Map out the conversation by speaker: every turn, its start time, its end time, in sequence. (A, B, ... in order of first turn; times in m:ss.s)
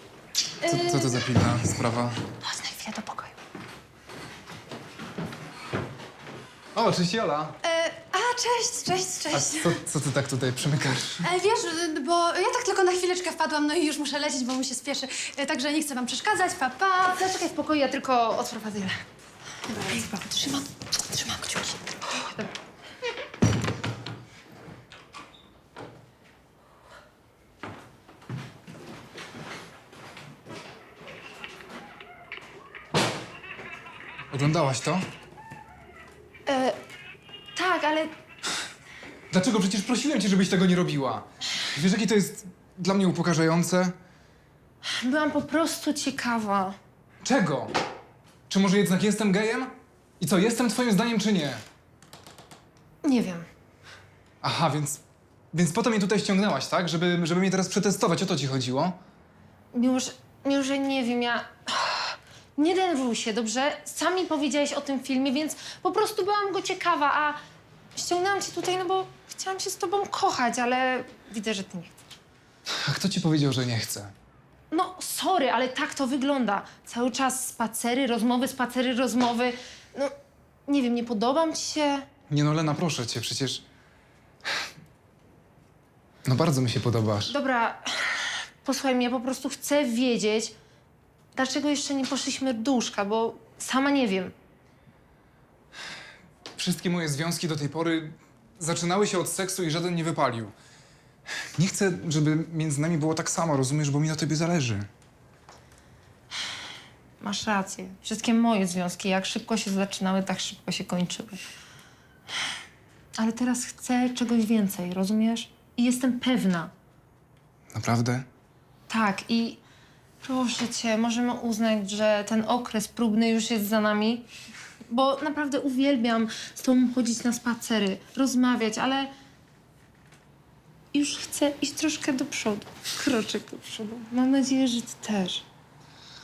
0:00.6-0:01.2 A
0:00.6-0:02.2 B
0:02.4-0:03.3 A
0:06.7-0:07.6 B
0:07.6-0:09.2 A
0:08.0-0:09.6 C
0:09.3-0:11.3 B
0:11.2-0:17.2 C
0:17.0-0:19.0 A
0:19.7-0:22.5 A
0:34.3-0:35.0 B
0:36.5-0:36.8 A
0:37.5-0:38.1 A
0:39.3-0:43.9 B
0:44.8-0:46.8 A
0:47.2-0:47.7 B
0:48.5-0:51.6 B
0:53.0-0:53.5 A
0:54.4-0:55.0 B
0:55.5-0:59.0 B
0:59.7-1:07.4 A
1:07.9-1:12.0 A
1:12.8-1:14.1 B
1:14.7-1:20.1 A
1:20.7-1:22.0 A
1:22.3-1:23.6 B
1:26.2-1:27.3 B
1:27.3-1:30.5 A
1:31.3-1:34.3 A
1:36.6-1:40.5 B
1:41.6-1:44.9 B
1:47.2-1:51.4 A
1:53.2-1:56.7 A
1:57.7-1:58.2 B
1:58.9-1:59.6 A
2:00.2-2:04.3 A
2:04.9-2:09.1 A
2:10.9-2:15.4 A